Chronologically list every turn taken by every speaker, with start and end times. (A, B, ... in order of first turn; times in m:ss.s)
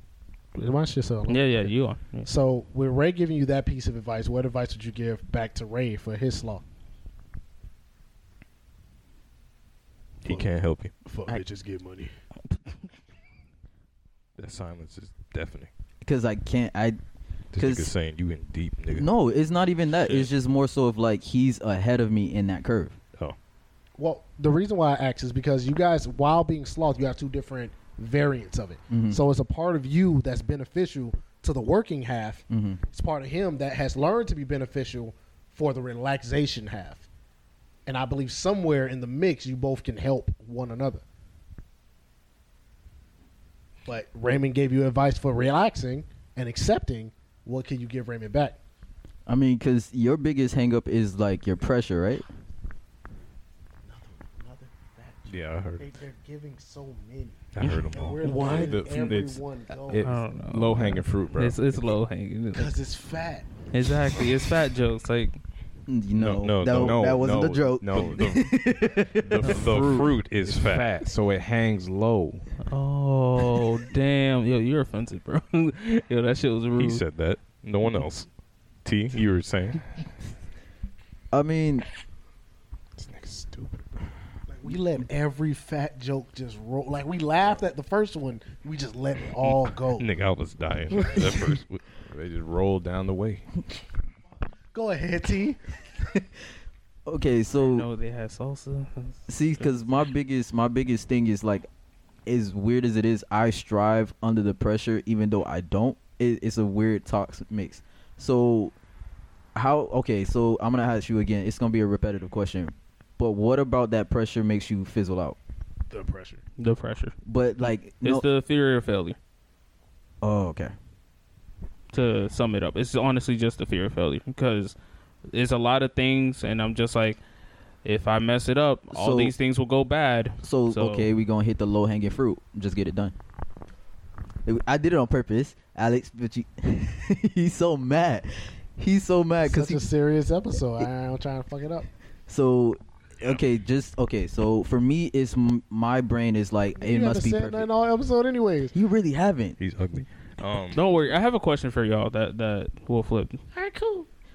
0:00.6-0:01.5 A
0:01.3-0:02.3 B
0:02.2-0:06.6 A
0:10.2-0:10.9 C
0:11.0-0:12.1 A
0:14.4-0:15.7 C
0:16.0-0:17.0 D
0:17.5-0:19.1 C
0:17.6-0:17.9 D
0:18.9-0:23.0 D
0:24.0-0:37.0 A
0:28.9-0:29.2 D
0:32.5-0:32.8 D
0:37.9-0:41.0 A
0:43.9-0:48.6 A
0:49.3-0:52.2 D
0:53.9-1:00.1 A
0:55.3-0:55.7 E
0:55.4-0:55.8 C
0:57.6-0:58.2 C
0:58.2-1:01.8 E
0:58.2-0:58.7 B
1:00.0-1:02.7 B
1:02.5-1:03.5 A
1:03.7-1:05.4 B
1:05.9-1:09.5 D
1:06.2-1:07.1 C
1:06.6-1:08.6 E
1:09.2-1:12.5 E
1:09.5-1:10.9 C
1:12.6-1:17.0 B
1:16.8-1:18.3 C
1:18.8-1:19.8 C
1:21.3-1:21.9 D
1:23.0-1:24.1 E
1:24.5-1:30.1 A
1:29.4-1:31.8 C
1:31.1-1:31.4 A
1:32.0-1:33.5 E
1:34.7-1:35.6 A
1:37.1-1:37.9 D
1:37.5-1:39.7 B
1:39.3-1:41.7 D
1:42.3-1:48.7 D
1:49.6-1:55.4 D
1:55.9-1:56.4 A
1:56.6-1:57.1 B
1:57.2-1:58.2 D
1:58.0-1:59.2 B
2:00.2-2:00.7 D
2:01.9-2:04.8 B
2:05.3-2:07.2 B
2:07.8-2:11.1 B
2:08.9-2:09.3 D
2:10.4-2:13.1 D
2:14.4-2:19.9 D
2:19.4-2:21.9 A
2:22.3-2:27.7 D
2:26.8-2:28.7 A
2:28.7-2:29.6 D
2:29.6-2:30.8 C
2:30.7-2:33.4 B
2:33.5-2:34.1 A